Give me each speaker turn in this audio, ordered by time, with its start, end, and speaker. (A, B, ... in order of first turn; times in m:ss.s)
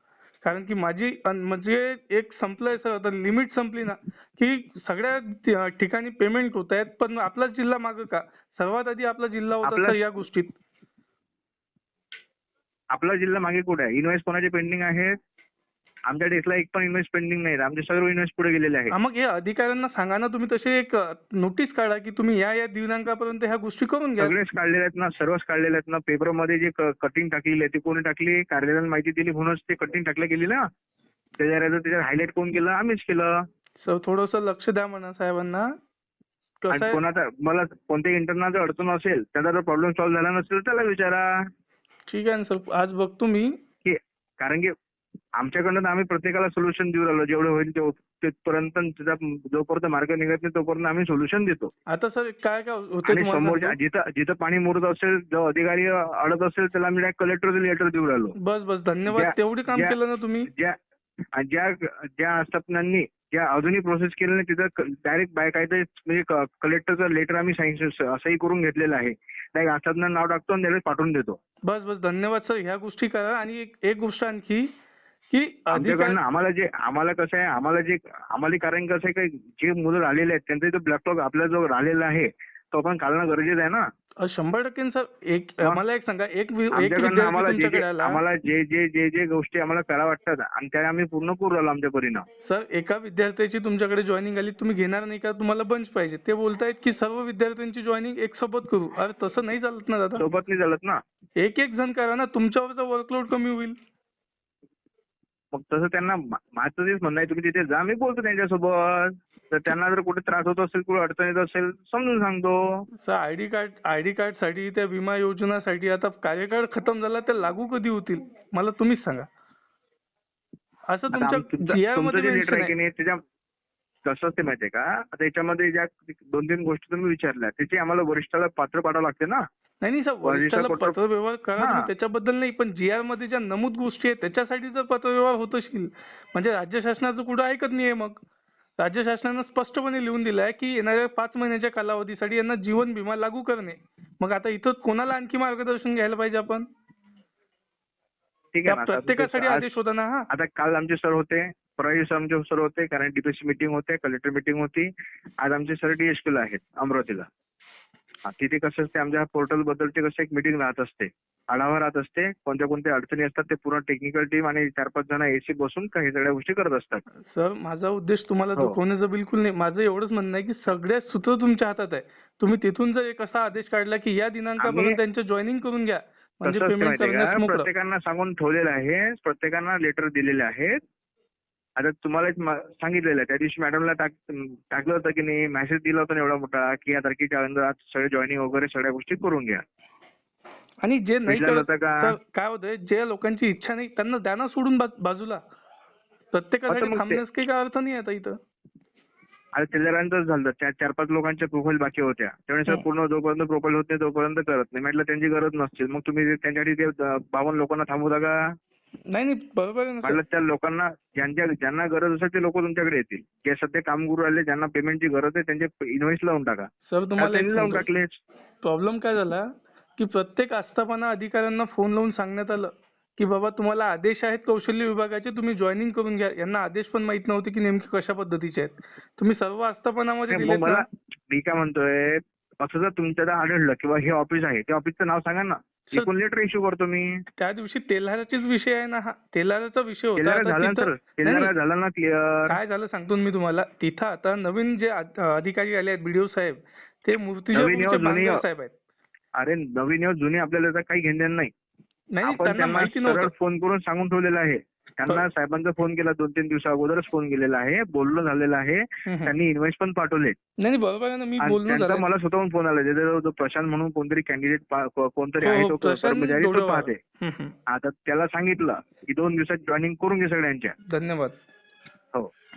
0:00.4-0:10.6 A
0:09.6-0:10.0 B
0:12.9-0:15.2 B
0:16.1-0:18.9 B
0:18.9-0:24.3 A
0:24.2-0:30.6 B
0:31.4-0:33.3 B
0:33.8-0:35.7 A
0:36.6-0:37.0 A
0:36.7-0:41.2 B
0:42.1-0:43.5 A
0:43.8-0:44.7 B
0:45.4-0:51.7 B
0:51.9-0:53.8 A
0:53.0-0:58.4 B
0:58.4-1:00.5 A
0:59.1-1:00.0 B
1:00.5-1:00.8 B
1:01.3-1:11.4 B
1:11.7-1:14.7 A
1:15.3-1:16.2 A
1:15.7-1:23.8 B
1:24.2-1:28.2 A
1:26.7-1:32.2 B
1:32.4-1:40.2 A
1:40.2-1:41.0 B
1:41.4-1:43.8 A
1:45.5-1:52.8 B
1:53.0-1:59.3 A
2:00.9-2:02.8 A
2:01.1-2:03.2 B
2:04.0-2:09.4 B
2:09.8-2:18.2 A
2:10.2-2:11.0 B
2:11.6-2:11.9 B
2:18.8-2:26.7 A
2:28.5-2:29.7 B
2:28.7-2:30.3 A
2:30.3-2:34.9 B
2:35.4-2:37.2 B
2:38.2-2:47.0 B
2:47.3-2:57.7 A
2:54.6-2:55.0 B
2:56.4-3:00.8 B
3:01.8-3:09.6 B
3:10.8-3:15.4 A
3:11.2-3:12.1 B
3:16.3-3:18.4 A
3:16.7-3:17.2 B
3:19.6-3:28.4 B
3:29.1-3:30.2 A
3:30.0-3:36.7 B
3:36.9-3:37.9 A
3:37.2-3:38.2 B
3:38.6-3:50.8 A
3:50.3-3:57.2 B
3:57.4-4:01.6 A
4:00.2-4:02.6 B
4:02.5-4:08.7 A
4:07.5-4:08.4 B
4:09.4-4:11.5 B
4:12.1-4:13.3 A
4:12.2-4:20.4 B
4:19.1-4:19.3 A
4:20.6-4:22.1 A
4:21.4-4:27.0 B
4:25.4-4:27.5 A
4:27.7-4:30.7 B
4:30.9-4:31.4 A